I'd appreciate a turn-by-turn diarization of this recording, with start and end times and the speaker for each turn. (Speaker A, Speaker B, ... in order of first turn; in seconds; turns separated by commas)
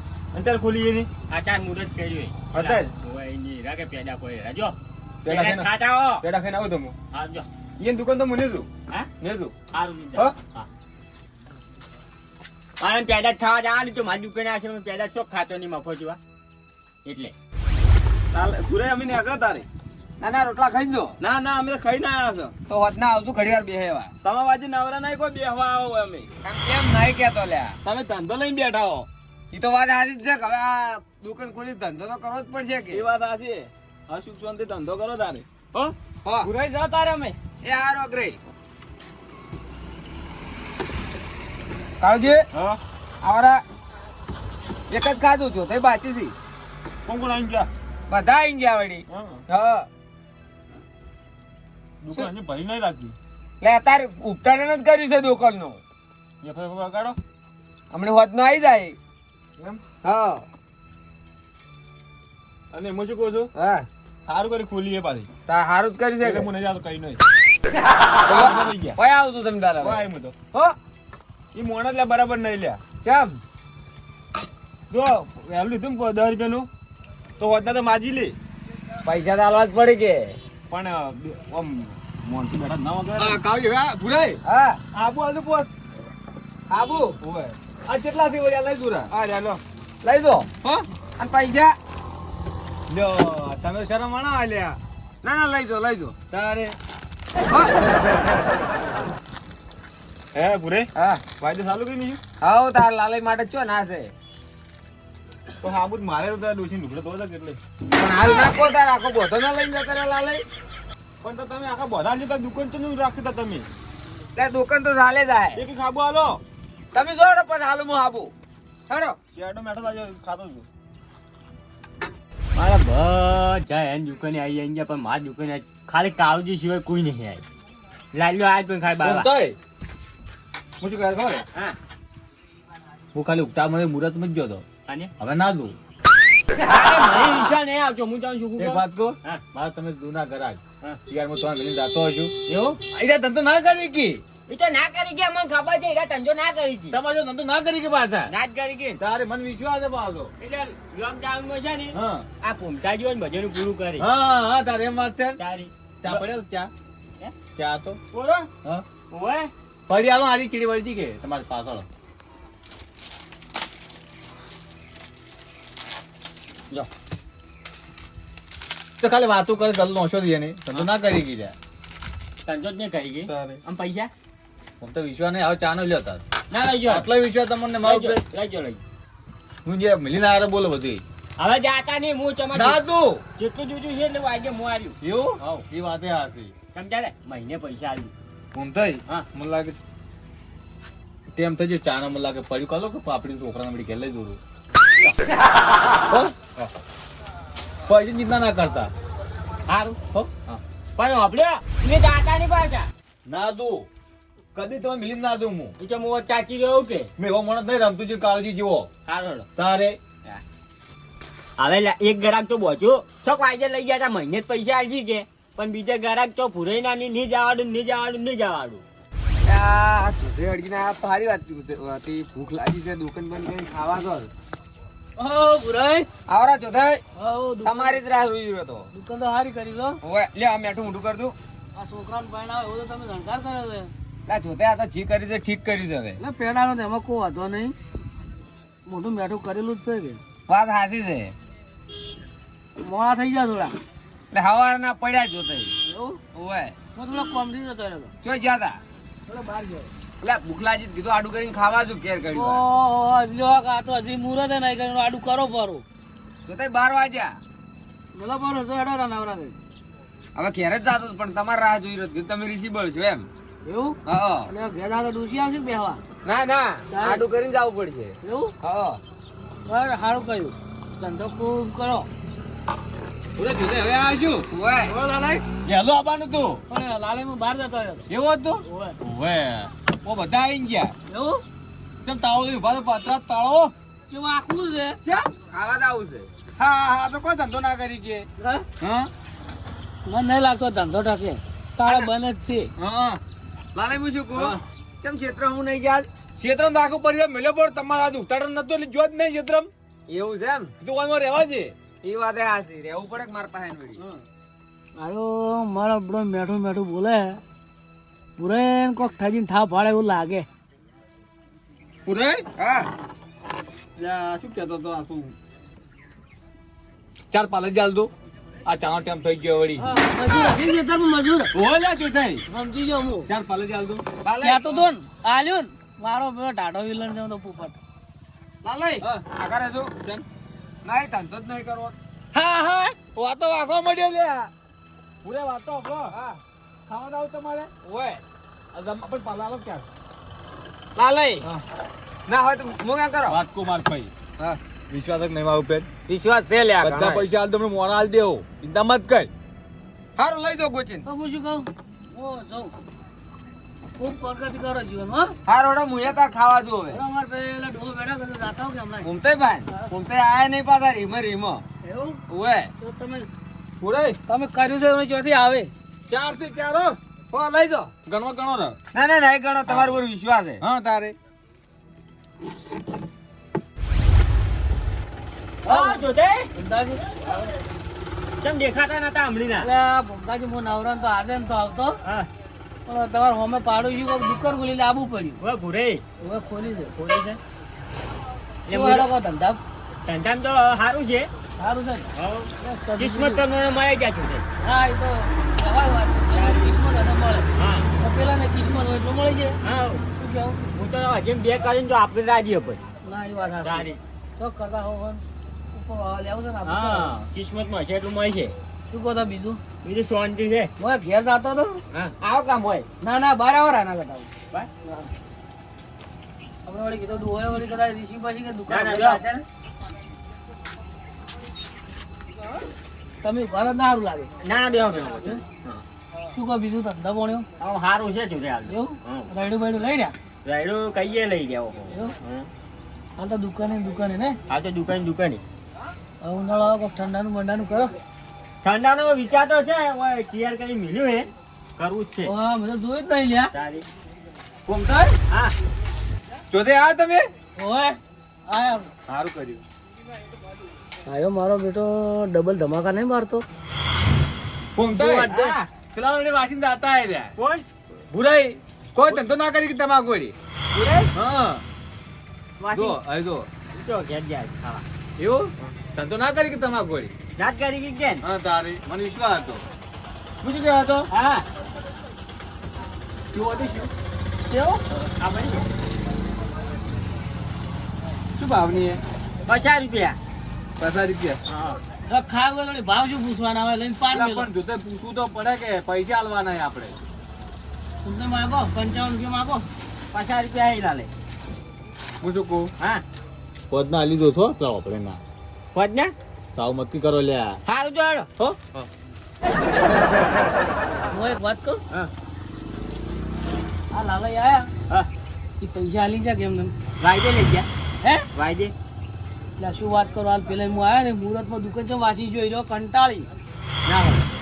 Speaker A: 0.3-1.1, Speaker B: 1.3-6.2, Speaker A: 2.5-2.9, Speaker A: 5.2-5.7, Speaker A: 6.2-7.0, Speaker B: 7.1-7.5, Speaker A: 7.8-9.6, Speaker B: 9.7-10.7, Speaker B: 12.8-16.2, Speaker B: 17.1-17.3, Speaker A: 18.3-19.7, Speaker C: 20.2-21.2, Speaker A: 21.2-22.5, Speaker C: 22.7-24.1, Speaker A: 24.2-26.3, Speaker C: 26.4-27.8, Speaker A: 27.8-29.1, Speaker C: 29.5-33.1, Speaker A: 32.9-35.9, Speaker C: 36.2-38.4, Speaker D: 36.5-37.4, Speaker C: 42.0-42.5, Speaker A: 42.5-42.8, Speaker C: 43.2-43.6, Speaker C: 44.9-46.4, Speaker A: 47.1-47.7, Speaker C: 48.1-49.9, Speaker A: 49.1-49.4, Speaker A: 52.0-53.1, Speaker C: 53.6-55.8, Speaker A: 56.4-57.2, Speaker C: 57.9-59.0, Speaker C: 60.0-60.5, Speaker A: 62.7-63.5, Speaker C: 63.5-63.9, Speaker A: 64.3-65.3, Speaker C: 65.5-66.5, Speaker A: 66.2-67.2, Speaker C: 68.2-70.8, Speaker A: 68.3-69.0, Speaker A: 69.8-70.4, Speaker A: 71.5-72.8, Speaker C: 73.0-73.4, Speaker A: 74.9-76.7, Speaker A: 77.4-78.3, Speaker C: 79.0-80.4, Speaker A: 80.7-83.4, Speaker E: 83.2-84.4, Speaker C: 84.5-84.8, Speaker A: 85.0-85.7, Speaker C: 86.7-87.2, Speaker A: 87.2-87.5, Speaker E: 87.9-89.1, Speaker A: 89.1-89.6, Speaker C: 90.0-90.5, Speaker C: 91.2-91.8, Speaker E: 92.9-94.8, Speaker C: 95.2-96.2, Speaker E: 96.3-96.8, Speaker A: 100.3-102.2, Speaker C: 101.0-101.2, Speaker C: 102.4-104.1, Speaker A: 105.6-107.6, Speaker C: 108.0-110.5, Speaker A: 111.2-113.7, Speaker C: 114.3-115.7, Speaker A: 115.6-116.4, Speaker C: 116.9-118.3, Speaker C: 118.9-119.2, Speaker A: 119.3-120.7, Speaker B: 122.5-127.4, Speaker B: 128.1-129.3, Speaker E: 129.0-129.6, Speaker E: 130.8-131.4, Speaker E: 133.1-134.7, Speaker E: 135.2-135.8, Speaker B: 136.6-139.4, Speaker E: 138.6-142.3, Speaker B: 142.5-142.8, Speaker E: 142.9-144.2, Speaker B: 144.5-147.0, Speaker E: 146.9-148.3, Speaker B: 148.3-149.0, Speaker E: 149.0-150.3, Speaker B: 150.4-154.1, Speaker E: 151.9-152.3, Speaker E: 154.0-155.4, Speaker B: 155.4-156.2, Speaker E: 156.0-156.7, Speaker E: 157.6-158.0, Speaker B: 158.1-158.5, Speaker B: 159.1-159.5, Speaker E: 159.9-161.9, Speaker E: 169.0-171.6, Speaker B: 172.4-174.1, Speaker E: 174.8-176.2, Speaker B: 176.5-177.1, Speaker E: 176.8-178.2, Speaker B: 177.8-178.8, Speaker E: 179.7-181.0, Speaker B: 181.4-182.8, Speaker E: 182.5-183.2, Speaker B: 183.4-185.0, Speaker E: 185.0-186.5, Speaker B: 186.7-188.1, Speaker E: 188.5-189.8, Speaker E: 191.3-194.4, Speaker E: 196.1-196.7, Speaker E: 197.9-198.9, Speaker B: 199.7-200.0, Speaker E: 200.1-200.6, Speaker B: 201.0-202.9, Speaker E: 203.3-203.9, Speaker E: 204.6-205.7, Speaker B: 205.8-207.1, Speaker E: 207.2-208.9, Speaker B: 209.1-209.5, Speaker E: 209.6-210.0, Speaker B: 211.6-218.8, Speaker C: 219.4-224.3, Speaker D: 225.2-226.1, Speaker C: 226.3-227.0, Speaker D: 227.2-228.0, Speaker C: 227.7-228.9, Speaker D: 228.9-230.0, Speaker C: 230.0-231.3, Speaker D: 231.8-233.9, Speaker C: 234.3-236.2, Speaker D: 236.2-237.8, Speaker D: 238.9-240.2, Speaker C: 240.5-241.3, Speaker D: 242.8-243.7, Speaker C: 244.3-245.8, Speaker D: 245.9-246.2, Speaker C: 246.3-246.8, Speaker D: 246.9-248.1, Speaker C: 248.2-248.8, Speaker D: 249.3-249.9, Speaker C: 250.2-252.6, Speaker D: 252.3-255.8, Speaker C: 256.5-257.4, Speaker D: 258.1-259.6, Speaker C: 260.4-263.3, Speaker D: 263.6-266.0, Speaker C: 264.1-264.5, Speaker C: 266.2-269.0, Speaker D: 266.9-267.2, Speaker D: 268.2-268.5, Speaker D: 269.7-272.1, Speaker E: 273.4-274.5, Speaker C: 274.5-274.9, Speaker D: 274.9-275.4, Speaker E: 275.6-276.6, Speaker D: 276.7-278.1, Speaker E: 278.1-280.9, Speaker D: 278.7-279.0, Speaker D: 281.1-281.4, Speaker E: 282.0-283.7, Speaker D: 284.1-285.0, Speaker C: 285.5-286.3, Speaker E: 286.6-288.3, Speaker D: 288.4-288.7, Speaker E: 288.8-289.1, Speaker D: 290.1-292.7, Speaker E: 292.8-293.2, Speaker C: 293.8-296.1, Speaker E: 294.3-294.6, Speaker E: 296.4-299.7, Speaker C: 300.1-300.7, Speaker E: 300.8-301.8, Speaker C: 302.0-304.0, Speaker D: 305.0-307.4, Speaker D: 308.4-310.5, Speaker E: 312.1-312.5, Speaker C: 312.6-312.9, Speaker A: 314.0-315.3, Speaker E: 314.0-315.0, Speaker E: 317.3-318.1, Speaker E: 318.7-319.9, Speaker D: 319.8-321.5, Speaker A: 321.6-322.1, Speaker E: 321.6-322.4, Speaker D: 322.5-323.3, Speaker E: 323.3-324.1, Speaker C: 324.2-324.9, Speaker D: 324.4-327.8, Speaker C: 328.6-329.9, Speaker C: 330.9-332.0, Speaker E: 332.3-334.5, Speaker E: 335.2-336.1, Speaker C: 336.1-336.4, Speaker E: 336.9-337.7, Speaker C: 337.8-338.2, Speaker E: 338.7-339.9, Speaker C: 341.0-341.5, Speaker C: 342.3-343.4, Speaker E: 343.3-344.1, Speaker E: 344.9-345.9, Speaker C: 346.1-347.3, Speaker E: 346.8-349.3, Speaker C: 350.2-351.1, Speaker D: 351.1-352.7, Speaker D: 354.0-355.4, Speaker C: 355.5-357.0, Speaker D: 356.9-359.1, Speaker C: 359.0-361.7, Speaker D: 361.8-362.2, Speaker C: 362.3-362.7, Speaker D: 362.8-363.3, Speaker E: 363.8-364.2, Speaker D: 364.3-365.7, Speaker E: 366.1-367.0, Speaker C: 367.3-367.9, Speaker E: 368.1-368.8, Speaker C: 368.9-370.6, Speaker E: 369.7-370.0, Speaker E: 370.6-371.1, Speaker B: 375.6-376.5, Speaker D: 375.7-377.0, Speaker B: 377.1-377.5, Speaker B: 378.4-379.7, Speaker D: 379.6-382.0, Speaker D: 382.9-385.4, Speaker B: 385.4-386.0, Speaker D: 386.2-386.9, Speaker B: 387.0-387.4, Speaker B: 388.7-389.1, Speaker D: 388.7-389.6, Speaker B: 390.1-391.3, Speaker D: 391.6-393.4, Speaker B: 392.1-394.5, Speaker D: 394.6-399.6, Speaker B: 396.3-396.8, Speaker B: 397.6-397.9, Speaker B: 399.6-400.1, Speaker D: 400.2-400.7, Speaker B: 400.8-402.8, Speaker D: 403.0-407.2, Speaker B: 403.6-404.0, Speaker B: 406.7-408.6, Speaker D: 408.9-409.6, Speaker B: 409.8-410.7, Speaker D: 410.8-411.8, Speaker B: 411.9-412.9, Speaker D: 413.0-414.3, Speaker D: 414.8-415.1, Speaker D: 416.7-419.4, Speaker B: 418.7-419.2, Speaker D: 423.2-424.4, Speaker B: 424.4-425.8, Speaker D: 426.3-427.5, Speaker B: 427.6-429.3, Speaker D: 428.7-430.1, Speaker B: 430.4-432.5, Speaker D: 433.2-434.4, Speaker B: 434.5-435.4, Speaker D: 436.2-437.9, Speaker B: 438.6-442.3, Speaker D: 442.2-443.5, Speaker B: 443.5-443.9, Speaker E: 444.7-445.2, Speaker E: 446.5-447.2, Speaker D: 447.6-448.9, Speaker E: 449.1-449.6, Speaker D: 451.1-453.4, Speaker E: 454.8-455.3, Speaker D: 454.9-455.6, Speaker B: 455.3-455.7, Speaker E: 455.9-457.3, Speaker B: 457.4-457.6, Speaker E: 458.1-460.4, Speaker B: 460.7-461.1, Speaker E: 461.1-461.6, Speaker B: 462.6-463.0, Speaker E: 462.7-463.5, Speaker B: 463.7-464.9, Speaker E: 465.2-467.1, Speaker B: 467.4-468.2, Speaker E: 468.2-469.6, Speaker E: 470.4-471.1, Speaker B: 471.1-471.4, Speaker E: 473.3-473.9, Speaker B: 474.5-475.7, Speaker E: 478.4-479.0, Speaker B: 479.5-480.2, Speaker E: 480.8-481.4, Speaker B: 481.5-481.8, Speaker D: 482.1-484.5, Speaker E: 484.1-487.0, Speaker D: 488.1-489.7, Speaker B: 490.1-491.1, Speaker E: 492.2-492.7, Speaker E: 493.7-495.2, Speaker B: 495.7-496.1, Speaker E: 496.6-497.6, Speaker B: 497.7-498.9, Speaker D: 501.1-501.8, Speaker D: 503.9-504.7, Speaker D: 505.6-506.7, Speaker B: 507.0-507.7, Speaker B: 508.3-508.7, Speaker D: 509.6-513.3, Speaker B: 513.9-514.3